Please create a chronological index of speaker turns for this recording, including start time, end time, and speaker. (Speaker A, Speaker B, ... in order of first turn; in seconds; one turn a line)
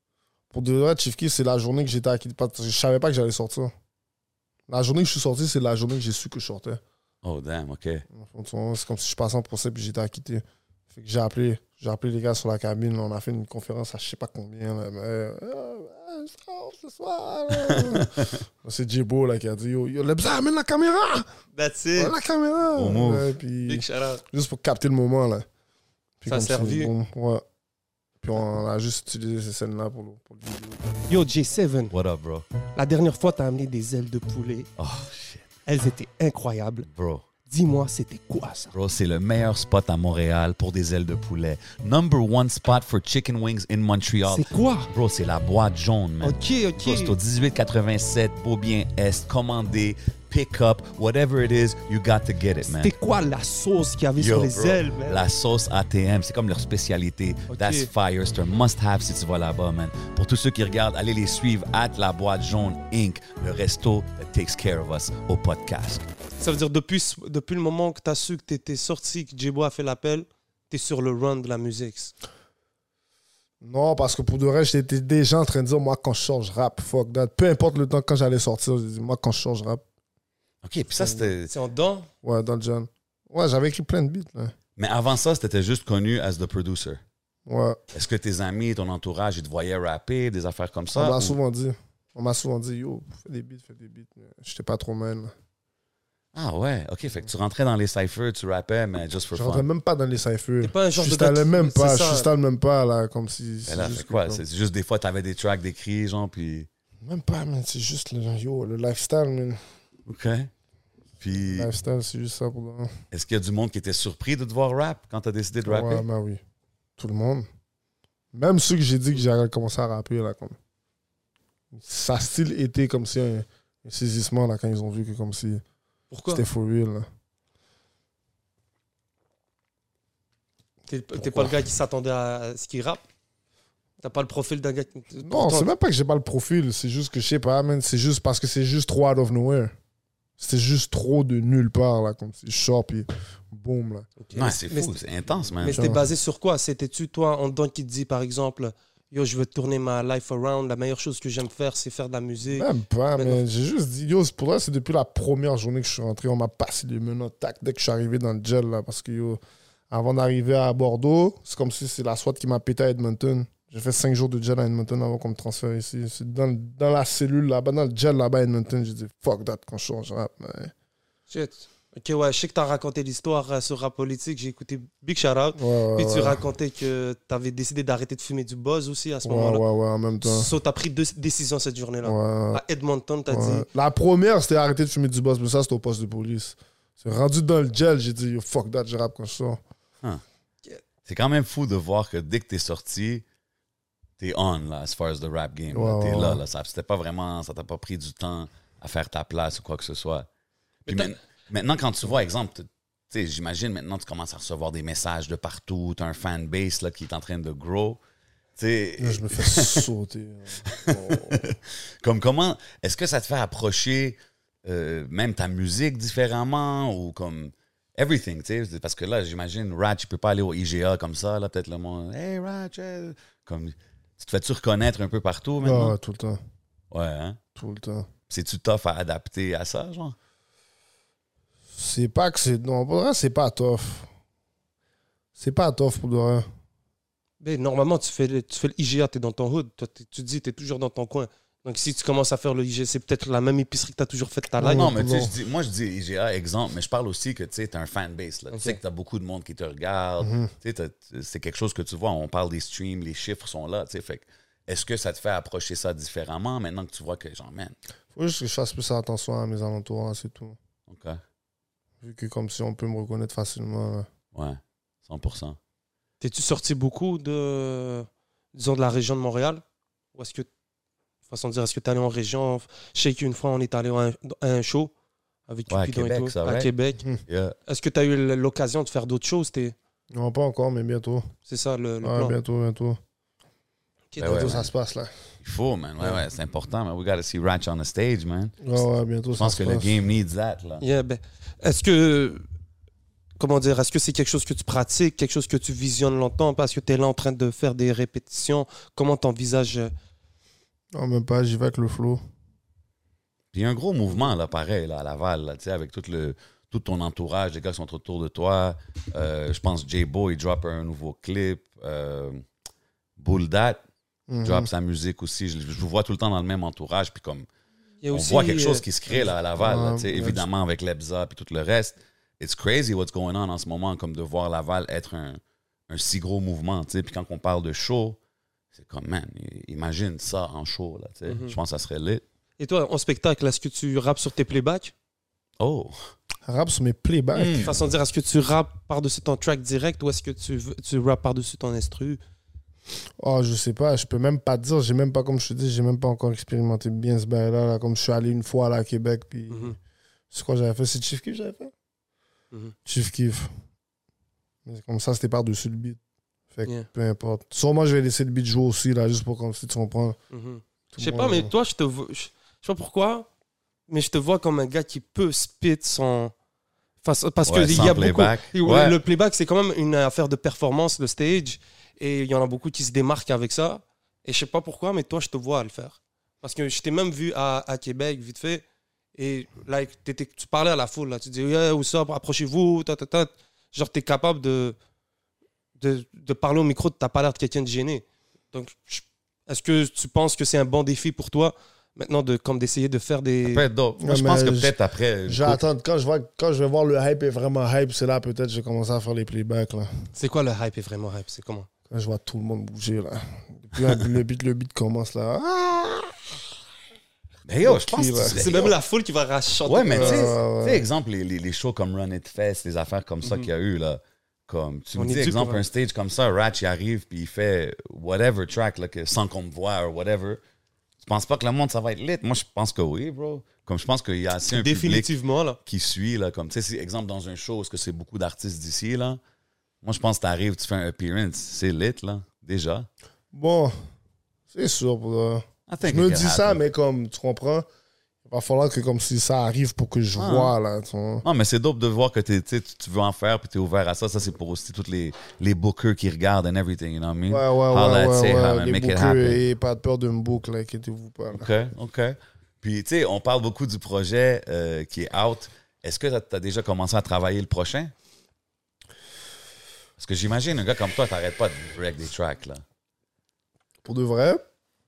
Speaker A: 0.5-3.7
Speaker A: 4.7-6.8
Speaker B: 7.2-8.0
Speaker A: 8.1-21.3
Speaker B: 17.5-18.4
Speaker C: 21.5-22.1
Speaker A: 21.9-25.4
Speaker B: 22.8-23.3
Speaker C: 23.6-24.2
Speaker A: 26.2-27.4
Speaker C: 26.3-26.9
Speaker A: 28.2-30.9
Speaker C: 31.1-31.9
Speaker B: 31.9-32.5
Speaker C: 32.7-34.7
Speaker B: 34.8-35.5
Speaker C: 35.6-36.9
Speaker B: 36.9-37.2
Speaker C: 37.5-38.7
Speaker B: 38.7-52.9
Speaker C: 44.3-44.9
Speaker C: 46.2-47.2
Speaker C: 52.6-55.2
Speaker B: 54.2-66.0
Speaker C: 57.5-57.9
Speaker C: 66.4-72.1
Speaker A: 73.6-79.8
Speaker B: 80.6-81.5
Speaker C: 81.4-82.1
Speaker A: 82.2-84.5
Speaker B: 84.8-87.0
Speaker A: 87.5-87.8
Speaker B: 87.9-91.3
Speaker A: 90.9-95.3
Speaker B: 96.3-99.7
Speaker A: 99.3-104.4
Speaker C: 100.6-102.3
Speaker B: 103.7-106.7
Speaker A: 107.0-109.6
Speaker B: 110.1-110.5
Speaker B: 111.2-111.7
Speaker A: 111.5-113.0
Speaker B: 113.1-116.0
Speaker A: 115.6-116.4
Speaker A: 117.0-117.5
Speaker A: 118.3-120.6
Speaker A: 121.7-125.6
Speaker C: 126.1-126.4
Speaker A: 126.3-127.1
Speaker C: 130.9-133.0
Speaker A: 131.2-131.5
Speaker C: 134.0-135.7
Speaker A: 135.2-139.7
Speaker A: 140.4-144.1
Speaker C: 144.2-144.9
Speaker B: 144.3-145.9
Speaker C: 145.6-153.4
Speaker A: 145.6-146.0
Speaker A: 152.5-159.4
Speaker A: 159.9-170.7
Speaker C: 171.3-179.6
Speaker A: 175.6-176.4
Speaker A: 179.2-180.5
Speaker C: 180.2-183.7
Speaker A: 182.0-182.6
Speaker A: 183.3-189.6
Speaker B: 191.1-193.2
Speaker B: 194.2-200.3
Speaker A: 195.7-196.4
Speaker B: 200.8-208.0
Speaker C: 200.9-201.1
Speaker B: 208.6-209.9
Speaker A: 209.0-211.4
Speaker B: 210.7-225.9
Speaker A: 225.6-226.4
Speaker B: 226.9-227.4
Speaker A: 227.5-228.1
Speaker B: 228.3-230.2
Speaker A: 231.7-234.1
Speaker A: 235.4-236.4
Speaker C: 237.4-244.9
Speaker A: 244.6-245.3
Speaker B: 244.6-257.7
Speaker C: 248.5-248.8
Speaker A: 250.2-250.5
Speaker A: 258.1-260.6
Speaker B: 260.9-261.2
Speaker A: 262.0-264.1
Speaker B: 264.3-265.6
Speaker C: 266.2-269.6
Speaker C: 270.1-270.5
Speaker C: 271.3-274.9
Speaker C: 275.5-277.0
Speaker B: 275.7-276.7
Speaker B: 277.3-277.6
Speaker C: 277.7-279.7
Speaker A: 280.1-281.3
Speaker C: 281.5-282.4
Speaker A: 282.0-283.0
Speaker C: 284.1-284.5
Speaker B: 284.2-284.7
Speaker A: 284.2-285.1
Speaker B: 285.4-288.8
Speaker A: 288.6-289.9
Speaker B: 289.3-290.8
Speaker C: 290.8-292.4
Speaker C: 293.4-299.9
Speaker A: 300.9-302.2
Speaker B: 303.5-312.4
Speaker B: 313.2-313.8
Speaker A: 314.3-314.7
Speaker B: 314.4-317.5
Speaker C: 318.0-318.8
Speaker B: 318.1-328.2
Speaker A: 319.6-320.4
Speaker B: 328.7-332.2
Speaker C: 331.3-331.6
Speaker C: 332.6-334.9
Speaker B: 335.6-335.9
Speaker A: 336.4-337.7
Speaker B: 337.3-337.7
Speaker C: 337.6-342.2
Speaker A: 343.2-349.8
Speaker C: 349.5-349.8
Speaker A: 350.3-351.7
Speaker A: 352.9-353.5
Speaker A: 354.6-356.0
Speaker A: 356.5-360.2
Speaker C: 360.3-363.3
Speaker A: 360.9-361.5
Speaker C: 363.9-366.3
Speaker C: 367.0-378.6
Speaker B: 367.4-369.0
Speaker C: 379.2-384.8
Speaker C: 385.8-393.6
Speaker B: 393.4-395.6
Speaker A: 394.0-394.7
Speaker A: 395.2-399.9
Speaker C: 400.1-401.7
Speaker A: 401.9-406.3
Speaker B: 407.4-408.8
Speaker A: 407.6-408.5
Speaker C: 408.3-410.4
Speaker B: 409.6-420.4
Speaker A: 409.9-410.9
Speaker C: 413.2-413.5
Speaker C: 414.9-415.6
Speaker B: 421.0-425.1
Speaker C: 424.5-425.6
Speaker B: 425.6-429.2
Speaker B: 429.8-432.9
Speaker A: 433.3-433.7
Speaker A: 434.5-437.7
Speaker B: 435.7-436.6
Speaker A: 438.2-441.2
Speaker B: 440.1-440.5
Speaker B: 441.2-449.4
Speaker A: 447.3-451.5
Speaker B: 451.3-457.9
Speaker B: 460.0-462.6
Speaker A: 463.8-464.4